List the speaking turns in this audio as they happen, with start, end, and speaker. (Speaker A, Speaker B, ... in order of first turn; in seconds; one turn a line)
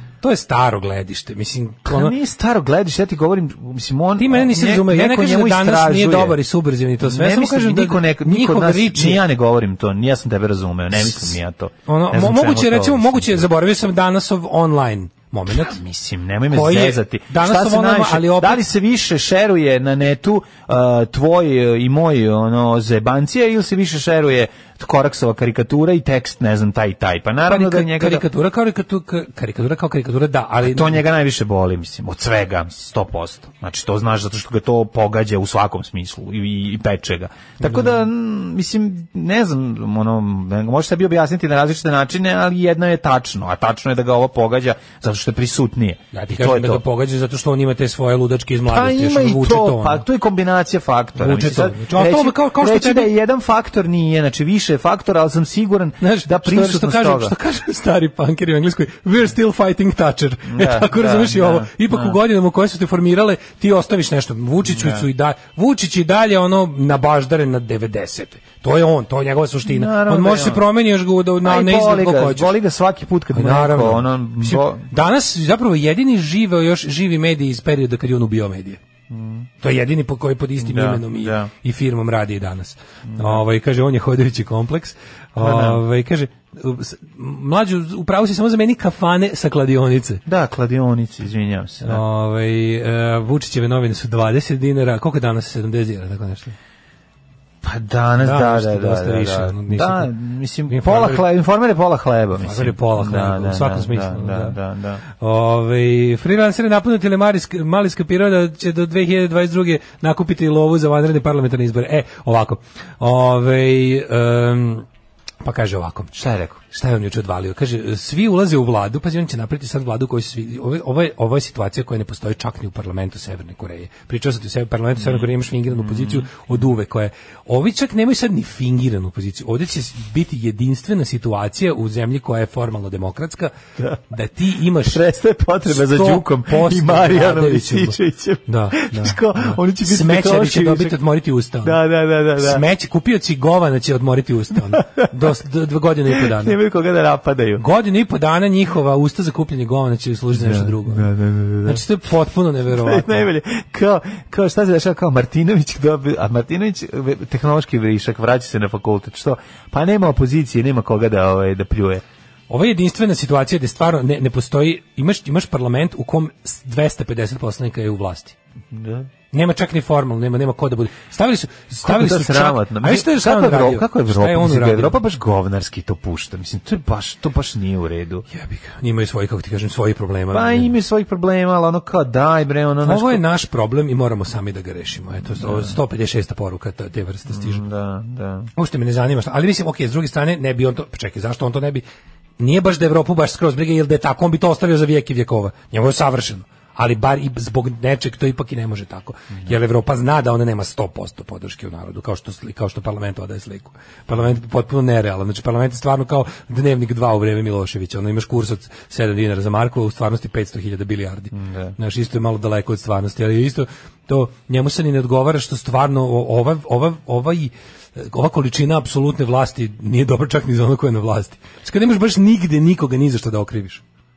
Speaker A: 0.2-2.2
Speaker B: 1.9-6.4
Speaker A: 4.2-9.2
Speaker B: 7.0-13.5
Speaker A: 11.0-11.3
Speaker A: 11.9-15.8
Speaker B: 15.5-28.3
Speaker A: 16.5-18.6
Speaker A: 27.5-31.0
Speaker B: 30.6-46.8
Speaker A: 37.6-38.0
Speaker A: 46.1-50.0
Speaker B: 48.7-57.3
Speaker A: 51.2-53.1
Speaker A: 56.0-72.5
Speaker B: 60.5-62.2
Speaker B: 64.7-65.1
Speaker B: 69.7-70.7
Speaker B: 71.4-74.9
Speaker A: 73.3-78.8
Speaker B: 79.1-79.5
Speaker A: 79.6-90.2
Speaker B: 80.6-81.5
Speaker B: 83.1-83.4
Speaker B: 85.4-85.8
Speaker B: 90.3-92.0
Speaker A: 91.8-96.5
Speaker B: 97.6-105.0
Speaker A: 98.2-100.1
Speaker A: 100.7-101.2
Speaker A: 102.4-104.6
Speaker A: 105.2-114.8
Speaker A: 115.4-116.1
Speaker B: 116.1-116.6
Speaker A: 116.7-133.5
Speaker B: 125.0-126.5
Speaker A: 134.1-135.0
Speaker B: 134.8-141.0
Speaker A: 135.7-139.2
Speaker A: 139.8-141.8
Speaker B: 141.6-142.6
Speaker A: 142.4-146.6
Speaker B: 144.7-145.1
Speaker B: 146.1-147.6
Speaker A: 147.6-151.1
Speaker B: 150.3-151.8
Speaker A: 151.6-153.3
Speaker B: 152.7-162.0
Speaker A: 162.5-168.3
Speaker B: 168.7-169.1
Speaker A: 169.3-175.0
Speaker B: 171.8-178.3
Speaker A: 178.3-180.7
Speaker B: 180.3-183.2
Speaker A: 182.8-187.6
Speaker B: 185.3-185.7
Speaker B: 187.3-188.5
Speaker A: 188.6-191.8
Speaker A: 192.4-223.8
Speaker B: 211.3-211.8